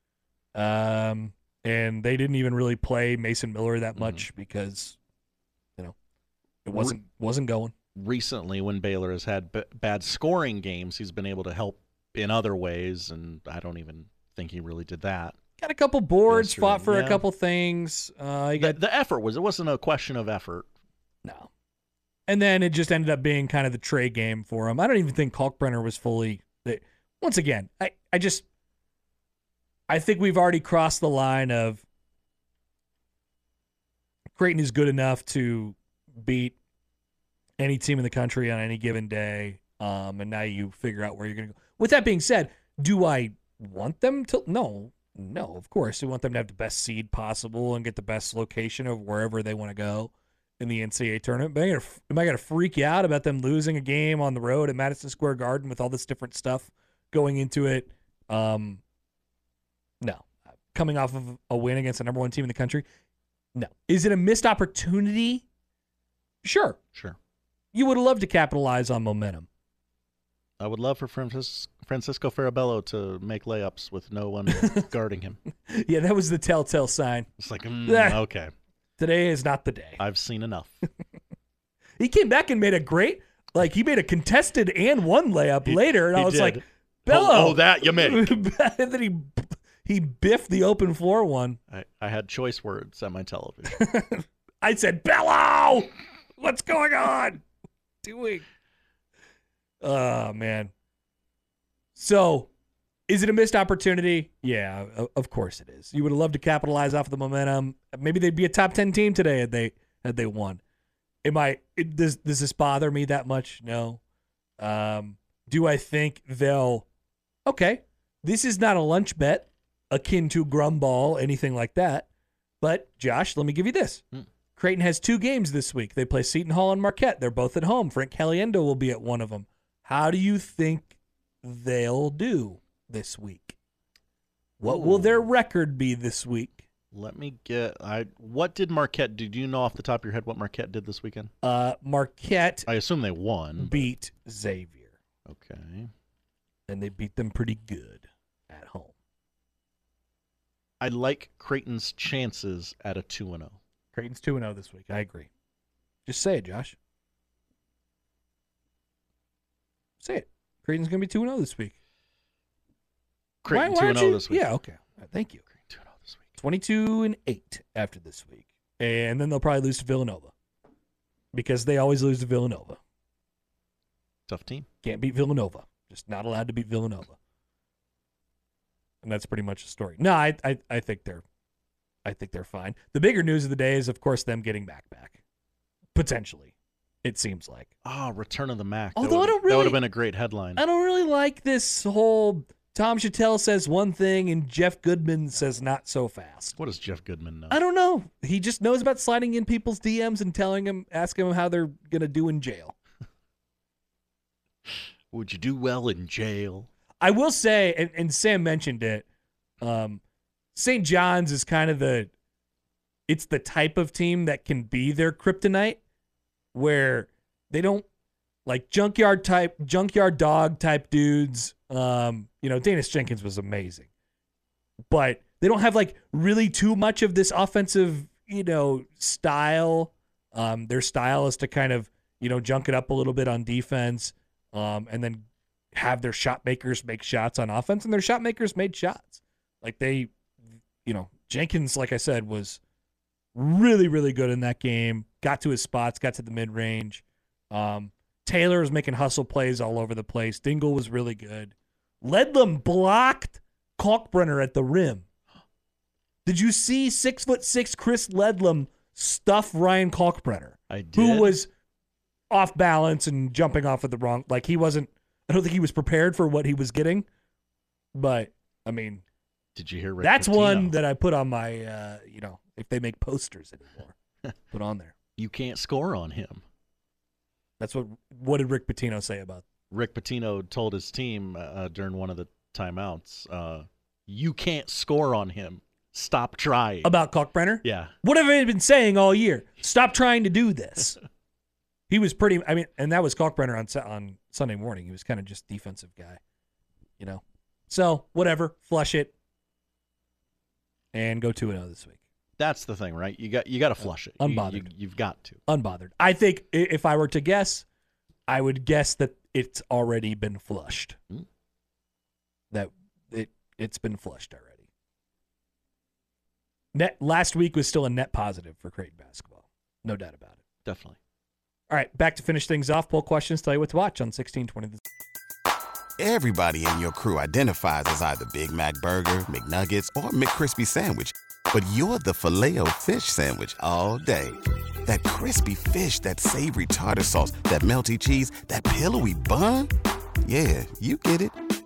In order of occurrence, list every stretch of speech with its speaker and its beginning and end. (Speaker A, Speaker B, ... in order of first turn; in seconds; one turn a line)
Speaker A: 0.5-5.0
Speaker B: 4.0-4.2
Speaker A: 6.6-7.7
Speaker B: 8.0-15.3
Speaker A: 15.6-18.8
Speaker B: 16.3-17.2
Speaker B: 18.6-20.6
Speaker A: 21.2-21.5
Speaker A: 22.3-28.4
Speaker A: 29.9-31.8
Speaker A: 34.3-36.5
Speaker A: 37.6-58.8
Speaker A: 60.0-62.9
Speaker A: 63.5-65.4
Speaker A: 66.4-66.8
Speaker A: 67.7-69.5
Speaker B: 70.6-75.4
Speaker A: 74.5-74.8
Speaker A: 75.7-77.3
Speaker B: 77.4-78.5
Speaker A: 77.8-78.2
Speaker A: 79.0-80.0
Speaker B: 80.0-80.8
Speaker A: 82.0-91.6
Speaker B: 85.6-88.3
Speaker B: 91.7-93.8
Speaker A: 93.7-97.4
Speaker A: 98.0-98.4
Speaker A: 99.8-100.7
Speaker A: 101.9-102.5
Speaker A: 103.1-110.6
Speaker A: 111.2-114.0
Speaker A: 114.6-116.8
Speaker A: 117.5-122.1
Speaker A: 122.6-124.0
Speaker A: 124.5-133.6
Speaker A: 134.6-136.6
Speaker B: 134.7-135.3
Speaker B: 136.9-141.3
Speaker A: 141.4-142.7
Speaker B: 142.7-143.9
Speaker A: 143.6-144.9
Speaker B: 145.3-145.9
Speaker A: 146.7-148.9
Speaker B: 150.8-153.6
Speaker A: 153.9-155.3
Speaker A: 156.1-156.8
Speaker A: 160.0-161.7
Speaker B: 163.4-164.5
Speaker A: 163.5-165.4
Speaker B: 165.5-166.4
Speaker A: 166.4-170.3
Speaker A: 171.3-172.8
Speaker B: 174.3-174.7
Speaker A: 174.8-177.2
Speaker A: 179.0-181.2
Speaker A: 182.0-185.2
Speaker A: 185.9-187.7
Speaker B: 187.8-190.6
Speaker A: 188.9-189.8
Speaker A: 190.6-196.6
Speaker B: 196.6-197.6
Speaker A: 197.5-202.8
Speaker B: 205.1-206.7
Speaker A: 207.0-209.1
Speaker A: 209.6-210.0
Speaker A: 210.5-212.1
Speaker A: 213.1-215.8
Speaker A: 216.5-217.8
Speaker A: 218.4-223.9
Speaker A: 224.9-240.1
Speaker A: 240.8-242.6
Speaker A: 243.3-255.0
Speaker A: 256.2-261.5
Speaker B: 260.7-261.3
Speaker A: 262.3-267.1
Speaker A: 267.9-269.0
Speaker B: 269.6-270.7
Speaker A: 270.0-273.9
Speaker A: 274.5-274.9
Speaker B: 275.2-276.4
Speaker A: 277.6-279.4
Speaker B: 279.7-286.9
Speaker A: 286.8-291.0
Speaker B: 287.6-287.9
Speaker A: 291.9-296.2
Speaker A: 297.0-299.1
Speaker A: 300.9-302.0
Speaker B: 302.4-305.4
Speaker A: 303.8-304.7
Speaker A: 305.5-307.6
Speaker A: 308.3-311.0
Speaker A: 312.5-314.6
Speaker A: 316.7-320.4
Speaker B: 320.6-321.0
Speaker A: 321.7-324.8
Speaker C: 326.0-339.7
Speaker C: 340.2-341.4